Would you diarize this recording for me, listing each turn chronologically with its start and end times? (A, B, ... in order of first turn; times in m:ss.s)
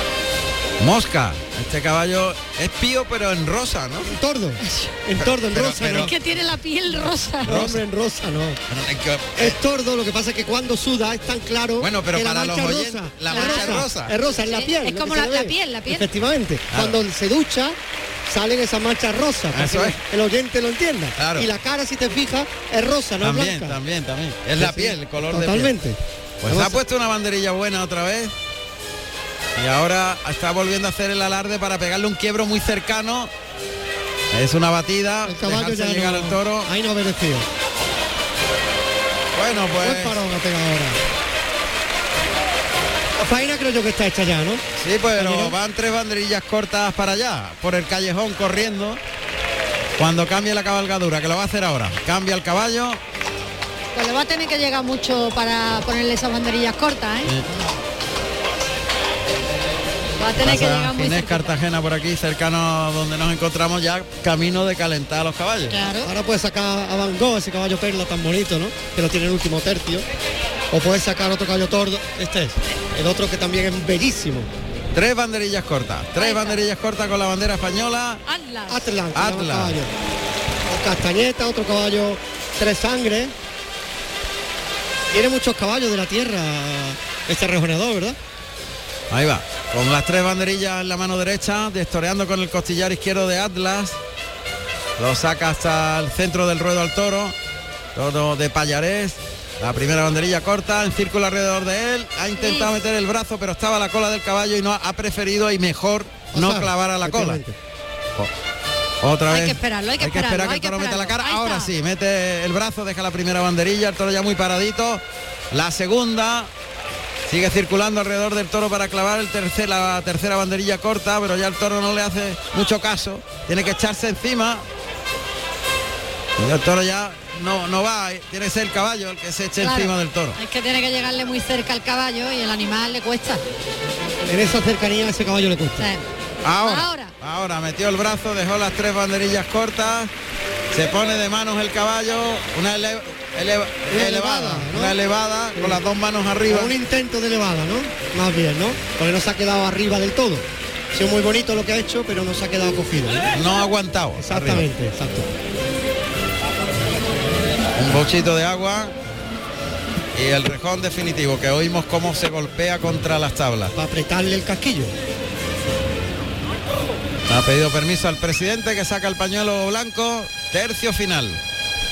0:00.8-0:04.2 A
0:04.0-0:06.1 B
0:04.6-0:04.9 C
0:05.2-0:06.1 A
0:06.0-0:07.6 C
0:07.4-0:08.6 B
0:07.4-0:07.8 A
0:08.7-0:09.6 A
0:09.4-0:23.8 B
0:11.8-0:14.1 A
0:13.3-0:13.9 C
0:14.5-0:16.1 C
0:16.7-0:17.0 A
0:19.5-0:20.0 A
0:21.2-0:21.5 A
0:23.2-0:25.7 A
0:24.6-0:26.8 B
0:26.4-0:28.3 A
0:29.6-0:33.3 A
0:34.3-0:36.7 A
0:35.2-0:37.5 B
0:39.3-0:40.2 A
0:39.7-0:41.0 B
0:43.2-0:44.6 B
0:44.8-0:49.0 A
0:45.2-0:45.6 B
0:50.0-0:53.0 A
0:53.9-0:57.3 C
1:00.2-1:01.5 C
1:00.4-1:05.8 A
1:05.7-1:06.1 C
1:06.0-1:10.0 B
1:10.7-1:14.5 B
1:14.9-1:18.2 A
1:16.2-1:16.6 C
1:18.2-1:18.9 C
1:18.7-1:19.9 B
1:19.1-1:19.8 A
1:20.7-1:23.3 B
1:25.1-1:28.2 B
1:29.1-1:34.0 A
1:35.0-1:37.4 A
1:37.9-1:47.4 A
1:42.4-1:42.7 C
1:46.3-1:47.6 B
1:49.0-1:56.5 A
1:49.3-1:51.7 C
1:57.3-2:04.6 A
2:06.4-2:10.4 A
2:09.6-2:13.4 C
2:14.2-2:15.9 B
2:15.8-2:16.1 C
2:16.4-2:20.1 A
2:16.6-2:17.1 C
2:20.7-2:26.7 A
2:23.9-2:25.0 B
2:25.5-2:25.8 B
2:26.5-2:33.3 B
2:33.3-2:34.7 A
2:34.2-2:35.3 B
2:37.8-2:38.9 A
2:40.1-2:43.7 A
2:43.7-2:44.9 B
2:47.3-2:51.4 A